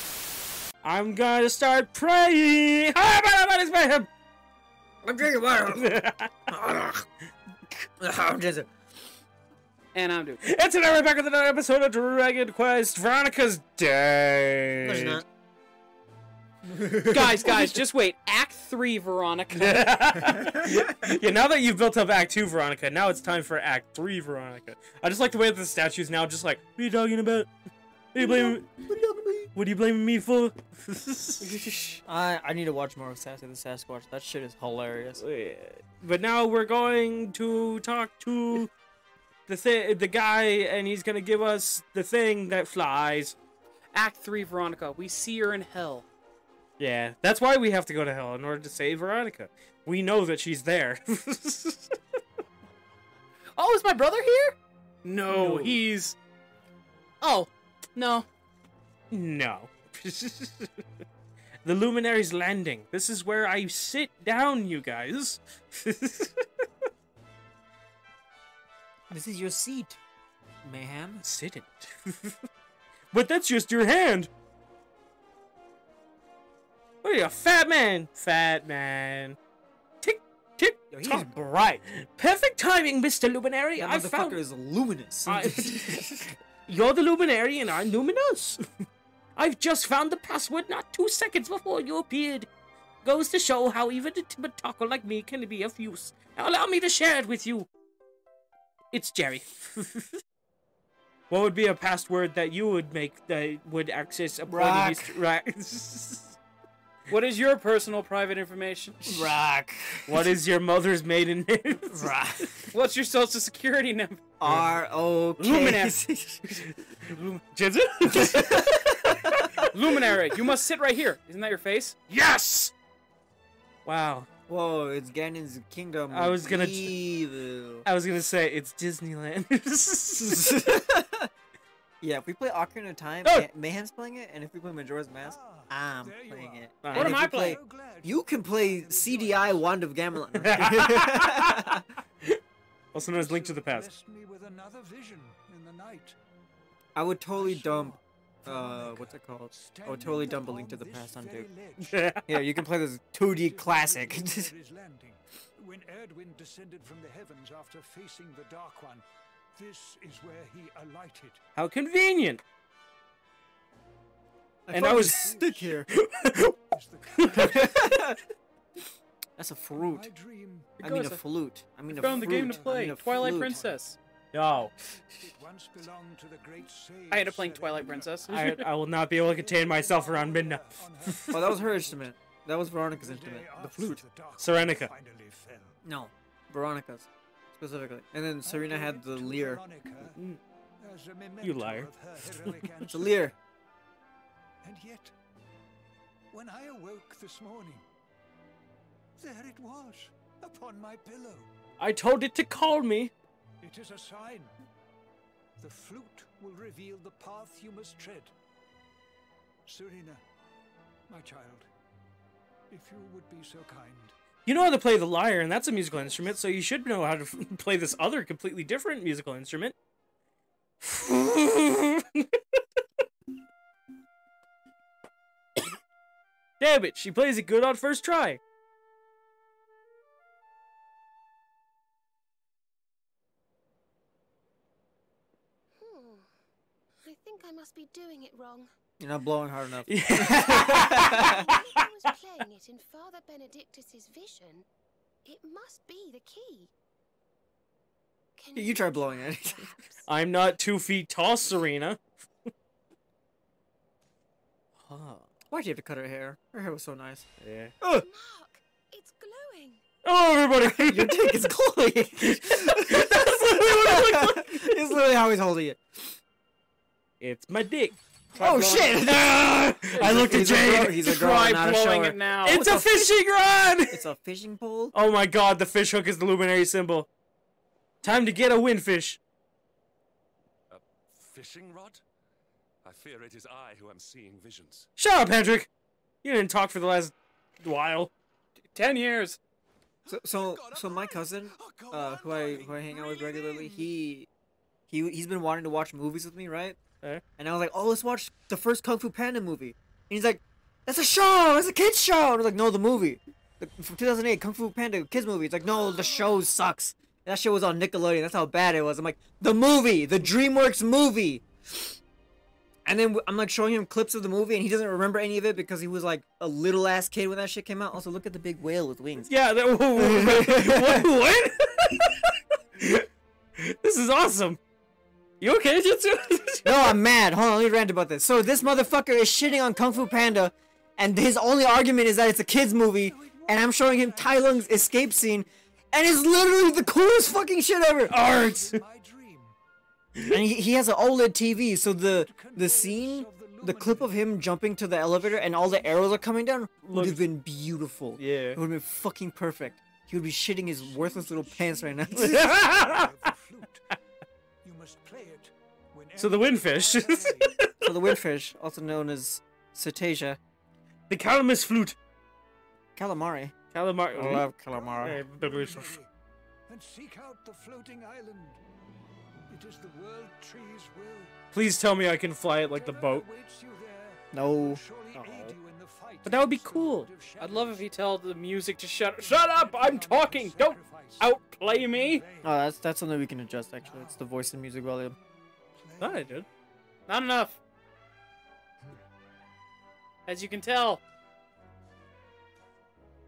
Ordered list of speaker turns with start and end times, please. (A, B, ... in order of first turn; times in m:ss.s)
0:00.8-0:04.1 A
0:05.0-0:07.0 B
0:05.8-0:06.5 A
0:08.0-0:08.7 B
0:09.9-0:10.4 C
0:10.4-0:15.2 A
0:14.8-0:15.2 B
0:16.6-0:17.5 B
0:17.1-0:20.1 C
0:19.5-0:27.5 A
0:28.1-0:28.7 A
0:28.2-0:29.5 B
0:29.5-0:32.0 A
0:32.0-0:35.2 B
0:35.2-0:38.7 A
0:39.5-0:43.4 A
0:43.9-0:46.1 C
0:46.8-0:52.0 A
0:53.6-0:56.2 C
0:55.3-0:55.8 A
0:57.2-0:58.3 C
0:59.1-1:00.7 A
1:01.6-1:06.4 A
1:09.1-1:10.0 B
1:10.6-1:11.2 B
1:11.2-1:12.4 A
1:13.1-1:14.3 A
1:17.0-1:19.4 A
1:20.0-1:24.4 A
1:20.9-1:21.3 B
1:23.8-1:26.3 B
1:25.3-1:28.6 A
1:29.4-1:32.5 A
1:33.0-1:37.7 A
1:38.9-1:40.2 A
1:41.3-1:46.4 A
1:44.5-1:45.2 B
1:47.1-1:49.3 C
1:49.1-1:50.3 B
1:50.1-1:52.2 A
1:51.9-1:52.7 B
1:52.7-1:54.3 C
1:54.4-1:56.7 B
1:54.4-1:54.7 A
1:55.4-1:55.9 A
1:56.6-1:59.7 A
1:58.0-1:59.7 B
1:59.7-2:02.1 C
2:02.1-2:02.7 A
2:03.8-2:04.3 A
2:04.5-2:07.8 B
2:06.1-2:07.0 A
2:07.8-2:10.9 A
2:10.2-2:11.3 B
2:12.0-2:21.8 B
2:15.2-2:19.7 D
2:16.8-2:17.2 A
2:16.9-2:17.6 C
2:20.3-2:22.4 A
2:22.9-2:23.9 A
2:22.9-2:26.2 D
2:26.9-2:31.5 B
2:27.3-2:32.2 D
2:31.8-2:32.2 A
2:32.3-2:34.5 B
2:33.3-2:41.4 D
2:41.6-2:42.4 A
2:44.7-2:45.9 B
2:44.7-2:45.2 A
2:44.7-2:45.9 D
2:45.9-2:46.6 A
2:46.7-2:48.0 D
2:47.2-2:47.5 A
2:47.3-2:48.2 B
2:49.4-2:50.1 B
2:49.7-2:50.8 D
2:50.8-2:51.2 C
2:50.8-2:53.6 B
2:51.9-2:53.8 D
2:51.9-2:54.0 C
2:54.3-2:55.3 A
2:55.1-3:02.1 D
2:57.1-2:58.6 C
2:58.3-3:01.4 A
3:01.3-3:04.0 B
3:02.9-3:05.8 D
3:04.4-3:04.9 A
3:05.8-3:09.6 B
3:08.4-3:10.2 D
3:10.8-3:13.4 D
3:11.4-3:12.5 A
3:12.9-3:13.3 B
3:14.6-3:15.1 D
3:16.3-3:17.8 D
3:19.2-3:21.5 D
3:21.8-3:23.1 A
3:23.6-3:24.5 D
3:25.6-3:28.3 D
3:29.6-3:30.2 D
3:31.1-3:31.7 D
3:32.7-3:34.2 D
3:34.4-3:39.8 A
3:36.0-3:36.2 D
3:40.8-3:42.6 A
3:46.6-3:48.4 A
3:55.7-3:56.3 E
3:57.0-3:58.7 E
3:59.0-4:01.4 B
3:59.9-4:01.8 A
4:00.3-4:04.6 E
4:05.2-4:06.7 E
4:08.4-4:10.0 E
4:08.5-4:09.7 B
4:10.1-4:12.0 A
4:14.8-4:15.2 A
4:15.5-4:17.3 B
4:17.4-4:17.7 A
4:18.0-4:19.8 E
4:20.0-4:21.5 A
4:20.6-4:26.2 B
4:22.2-4:24.9 A
4:27.2-4:27.9 A
4:28.4-4:32.2 B
4:28.4-4:29.0 C
4:29.0-4:31.2 A
4:29.9-4:33.1 C
4:32.4-4:34.0 A
4:33.9-4:34.9 B
4:34.9-4:37.1 A
4:38.0-4:39.2 A
4:40.7-4:42.0 F
4:42.8-4:44.9 F
4:45.0-4:45.7 A
4:46.2-4:48.1 A
4:48.7-4:49.4 C
4:50.0-4:53.9 F
4:50.1-4:54.3 B
4:54.9-4:56.8 B
4:57.4-5:11.9 B
5:12.8-5:19.3 B
5:19.3-5:23.1 A
5:19.9-5:21.1 B
5:23.6-5:24.6 A
5:25.4-5:26.9 A
5:26.6-5:38.2 B
5:32.9-5:35.3 D
5:36.4-5:37.4 D
5:38.0-5:39.5 D
5:38.1-5:38.8 A
5:40.3-5:52.6 B
5:42.1-5:46.1 D
5:46.8-5:47.2 A
5:48.2-5:48.6 A
5:50.5-5:53.8 D
5:52.1-5:53.1 A
5:54.6-5:57.6 D
5:56.2-5:58.1 A
5:57.8-6:00.4 B
6:01.1-6:02.0 A
6:03.0-6:03.6 B
6:03.7-6:04.5 A
6:04.1-6:05.2 B
6:04.6-6:06.1 D
6:05.0-6:06.0 A
6:06.7-6:08.6 D
6:09.5-6:11.3 D
6:11.5-6:13.2 A
6:12.7-6:17.9 D
6:14.3-6:14.8 B
6:15.1-6:15.6 A
6:16.2-6:17.1 A
6:17.4-6:19.7 C
6:19.2-6:22.5 D
6:19.6-6:20.8 A
6:21.2-6:22.2 C
6:22.4-6:25.2 B
6:23.8-6:24.2 D
6:25.7-6:26.3 D
6:26.0-6:26.4 A
6:27.1-6:27.6 C
6:30.3-6:31.0 C